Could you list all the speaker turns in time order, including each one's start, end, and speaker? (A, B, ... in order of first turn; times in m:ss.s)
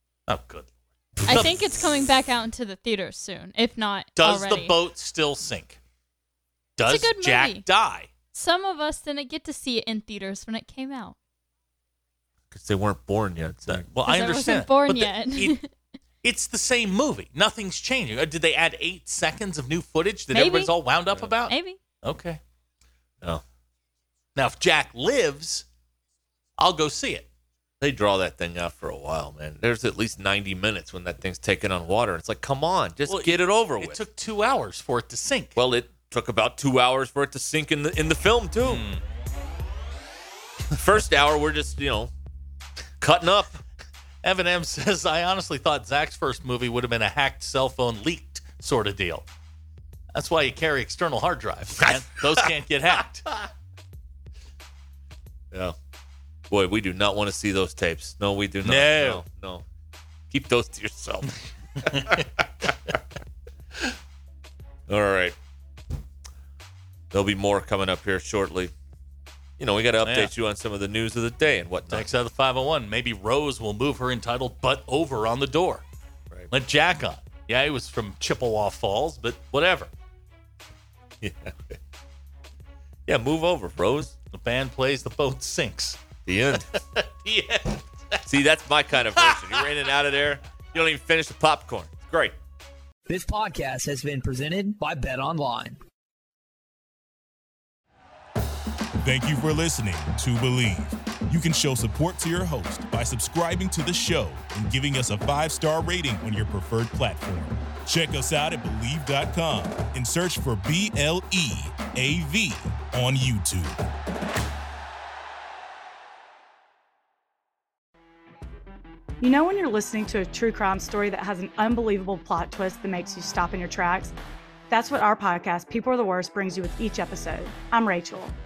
0:00.3-0:01.5 A
0:01.2-0:04.8 B
0:04.2-0:05.8 A
0:06.8-0:08.1 A
0:06.8-0:07.6 B
0:08.3-0:11.2 B
0:12.5-0:13.9 C
0:13.7-0:15.6 A
0:14.1-0:15.7 B
0:16.2-0:22.4 A
0:20.3-0:20.7 B
0:21.5-0:21.8 B
0:24.4-0:25.7 A
0:26.6-0:27.3 A
0:27.8-0:34.0 C
0:33.1-0:35.6 A
0:35.6-0:38.8 C
0:38.6-0:39.0 A
0:40.7-0:42.1 C
0:43.0-0:43.6 C
0:44.2-0:49.2 A
0:50.1-0:53.3 A
0:56.5-0:59.6 C
0:58.6-0:59.2 A
1:00.3-1:03.0 C
1:04.9-1:05.4 C
1:07.1-1:08.7 C
1:09.6-1:12.1 C
1:10.0-1:10.3 A
1:11.9-1:15.8 A
1:16.5-1:19.9 A
1:21.2-1:21.8 C
1:23.1-1:24.1 C
1:24.3-1:26.0 A
1:26.3-1:26.7 C
1:26.5-1:28.2 A
1:28.3-1:32.4 C
1:29.1-1:29.7 A
1:33.1-1:35.8 D
1:39.0-1:53.8 E
1:59.2-2:04.1 F
2:04.7-2:08.4 F